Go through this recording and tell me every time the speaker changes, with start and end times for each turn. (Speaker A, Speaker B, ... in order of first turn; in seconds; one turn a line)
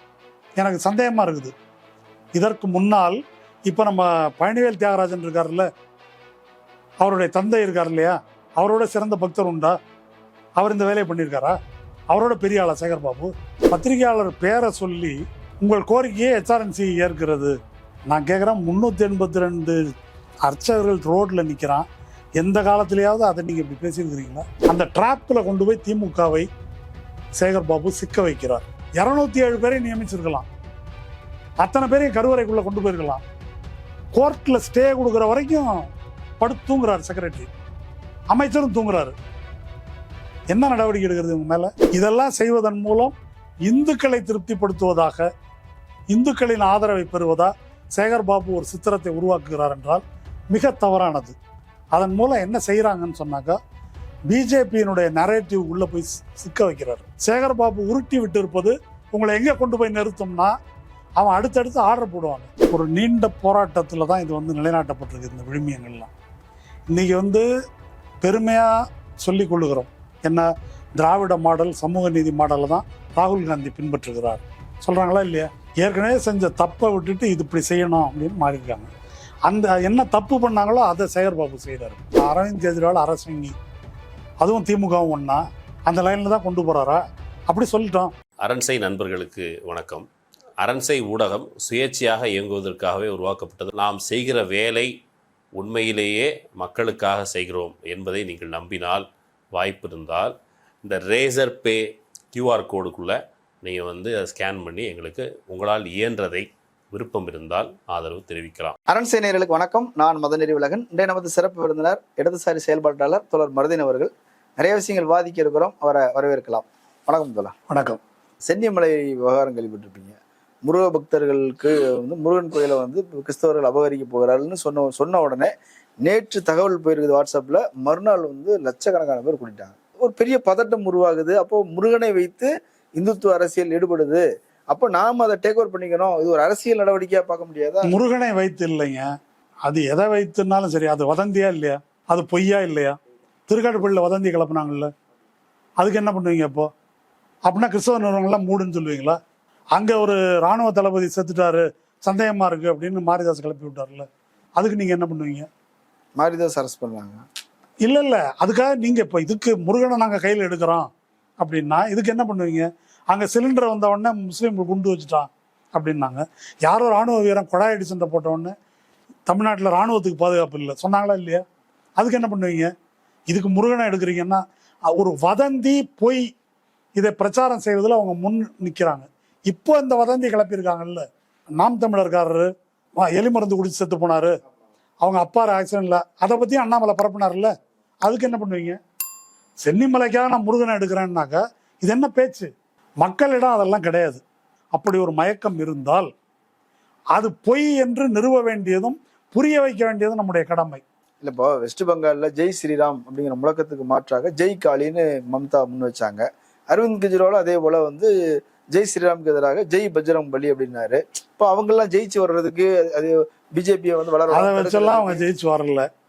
Speaker A: 0.6-1.5
Speaker A: 2.3-5.7
Speaker A: 7.0-9.8
Speaker A: 10.6-11.6
Speaker A: 12.1-17.6
Speaker A: 18.1-19.8
Speaker A: 20.4-21.9
Speaker A: 22.4-26.5
Speaker A: 27.4-30.5
Speaker A: 31.6-33.2
Speaker A: 34.1-35.9
Speaker A: 36.4-37.5
Speaker A: 38.3-39.1
Speaker A: 40.5-43.1
Speaker A: 43.6-45.3
Speaker A: 46.1-51.4
Speaker A: 51.9-53.6
Speaker A: 54.3-60.5
Speaker A: 61.2-66.1
Speaker A: 66.9-67.5
Speaker A: 68.2-78.9
Speaker A: 79.5-83.5
Speaker A: 84.4-88.1
Speaker B: 88.4-90.0
Speaker B: 90.6-94.9
Speaker B: 95.5-108.8
Speaker C: 108.9-117.5
Speaker A: 117.7-118.0
Speaker C: 118.5-125.5
Speaker C: 126.0-137.9
Speaker A: 137.8-139.1
Speaker A: 139.6-142.9
Speaker A: 143.5-144.9
Speaker A: 145.8-146.7
Speaker A: 147.5-149.2
Speaker A: 149.7-155.5
Speaker C: 156.2-157.2
Speaker A: 157.8-160.9
Speaker A: 161.4-168.5
Speaker A: 169.3-171.4
Speaker A: 172.0-172.7
Speaker A: 173.3-176.3
Speaker A: 177.0-181.0
Speaker A: 181.6-184.3
Speaker A: 185.0-187.5
Speaker A: 188.0-188.8
Speaker A: 189.6-194.2
Speaker A: 194.7-196.1
Speaker A: 197.1-200.8
Speaker C: 201.2-208.1
Speaker C: 208.7-215.2
Speaker A: 214.3-215.9